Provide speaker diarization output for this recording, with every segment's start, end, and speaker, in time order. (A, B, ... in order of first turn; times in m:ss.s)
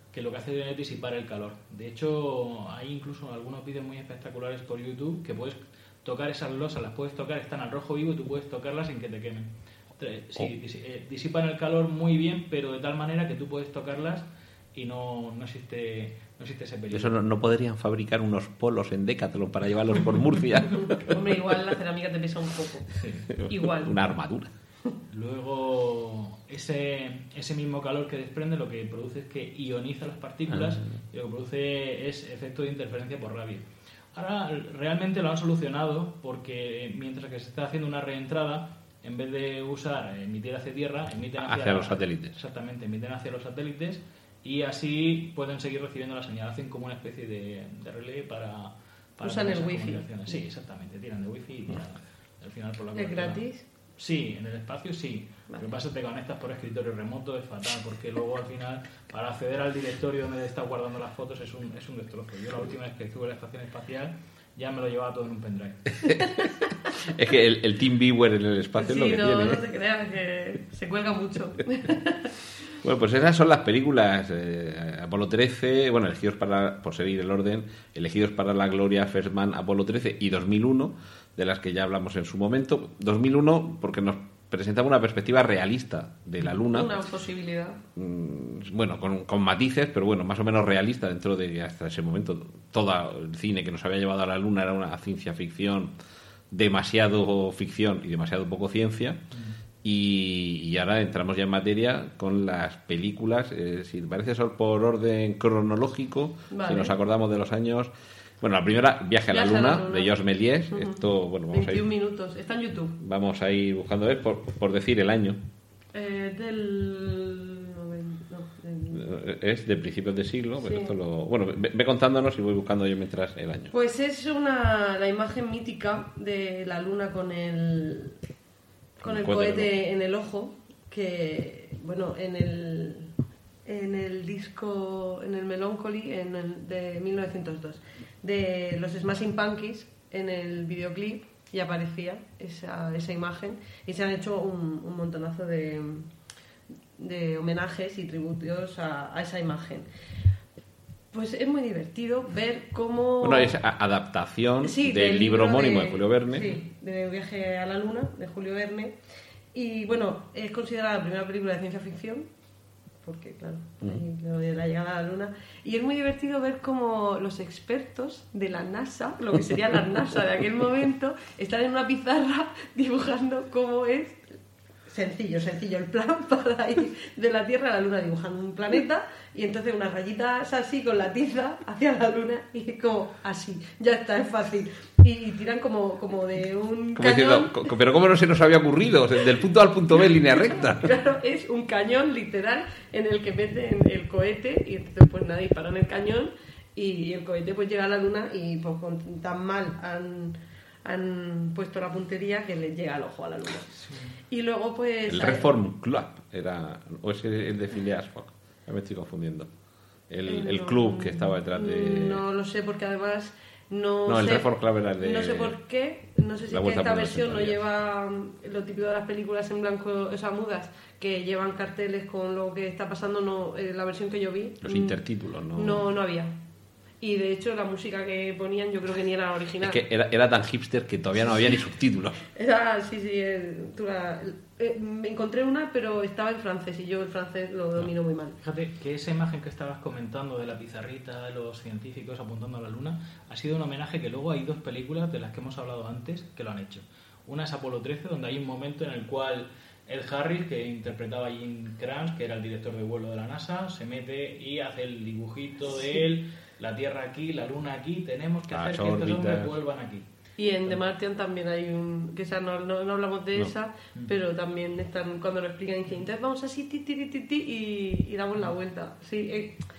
0:00.1-0:17.1 A
0:16.9-0:21.2 B
0:20.7-0:22.9 C
0:22.9-0:23.3 A
0:23.4-0:24.5 B
0:23.4-0:24.0 C
0:25.1-0:53.4 A
0:41.4-0:42.4 B
0:49.2-0:50.3 C
0:53.0-0:53.6 C
0:54.0-1:06.1 A
1:07.0-1:09.6 B
1:08.8-1:12.3 C
1:12.8-1:27.0 B
1:26.6-1:27.8 C
1:28.0-1:35.9 B
1:36.5-1:39.2 B
1:39.3-1:39.6 A
1:39.8-1:51.9 B
1:46.5-1:46.9 C
1:49.3-1:50.2 C
1:50.7-1:53.0 C
1:53.0-1:55.4 B
1:55.9-1:59.1 C
1:58.9-2:03.7 B
2:00.6-2:00.9 C
2:03.7-2:08.2 C
2:09.0-2:13.1 C
2:09.0-2:09.7 B
2:13.6-2:26.1 C
2:27.0-2:29.9 C
2:31.1-2:33.6 C
2:33.2-2:36.5 B
2:34.6-2:39.0 C
2:39.5-2:42.3 C
2:43.0-3:07.7 C
3:07.0-3:10.9 B
3:10.3-3:25.5 C
3:23.8-3:24.2 A
3:25.1-3:29.5 B
3:30.1-3:32.2 B
3:30.3-3:45.0 C
3:34.1-3:35.6 B
3:36.5-3:37.6 B
3:44.6-3:45.8 B
3:45.5-3:46.4 C
3:47.0-3:49.8 C
3:49.6-3:52.2 B
3:52.3-3:58.4 C
3:58.4-4:20.1 A
4:18.5-4:19.5 B
4:20.4-4:29.6 C